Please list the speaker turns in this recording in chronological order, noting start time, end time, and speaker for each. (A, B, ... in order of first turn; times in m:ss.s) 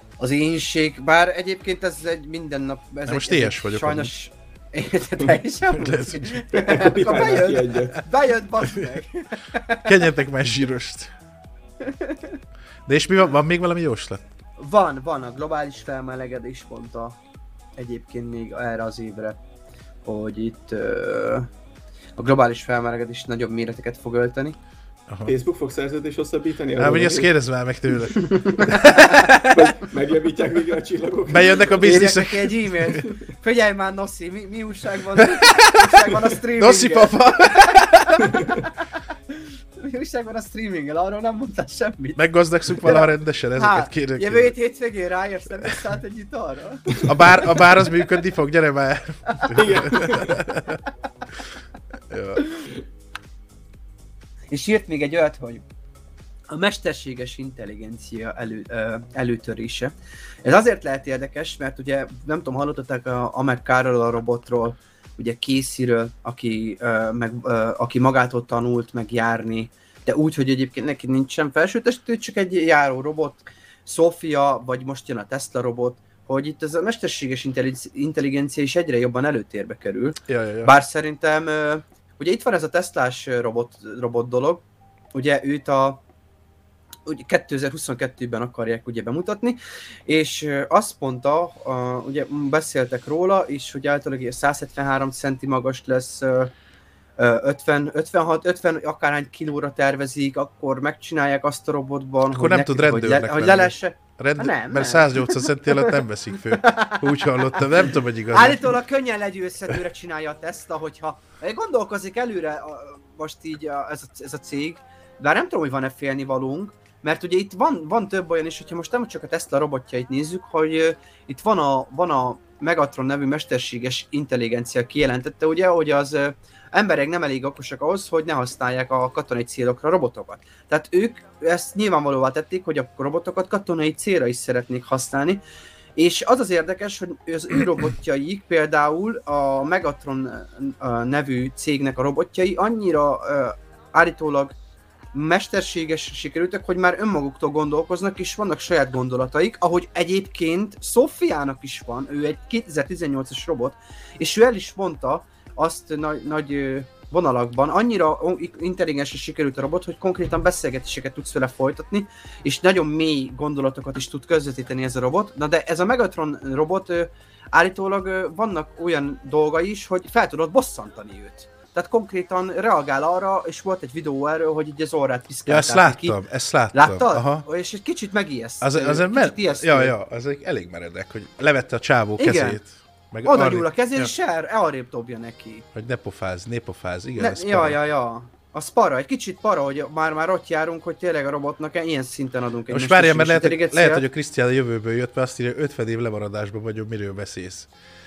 0:00.2-0:10.1 A
0:03.0-0:04.1 B
0:05.8-0:06.4 B
0:06.5-0:08.0 C
0:09.8-0:11.1 B
0:11.8-0:12.3 A
0:12.9-0:14.2 B
0:14.6-0:17.2 A
0:17.8-0:19.4 A
0:20.0-0:21.5 A
0:22.2-0:24.6 A
0:25.1-0:25.3 B
0:25.2-0:27.3 C
0:26.8-0:29.8 B
0:28.2-0:29.3 A
0:29.3-0:31.8 C
0:31.3-0:33.0 B
0:31.8-0:38.7 A
0:36.6-0:38.4 B
0:38.3-0:38.6 C
0:39.3-0:42.2 A
0:42.2-0:44.5 B
0:42.7-0:47.5 A
0:47.0-0:50.8 B
0:49.5-0:50.5 C
0:52.1-0:52.4 B
0:54.5-0:55.6 A
0:56.5-0:59.9 A
1:00.4-1:24.6 A
1:20.3-1:20.7 B
1:25.1-1:26.0 A
1:27.0-1:36.5 A
1:37.2-1:46.0 A
1:42.3-1:48.6 B
1:46.5-2:15.4 A
2:16.0-2:24.5 A
2:25.1-2:56.2 A
2:55.4-2:57.4 B
2:56.7-2:59.9 A
2:58.6-3:04.1 B
3:02.2-3:02.6 A
3:03.2-3:05.6 A
3:05.7-3:07.8 B
3:07.2-3:14.0 A
3:12.7-3:17.7 B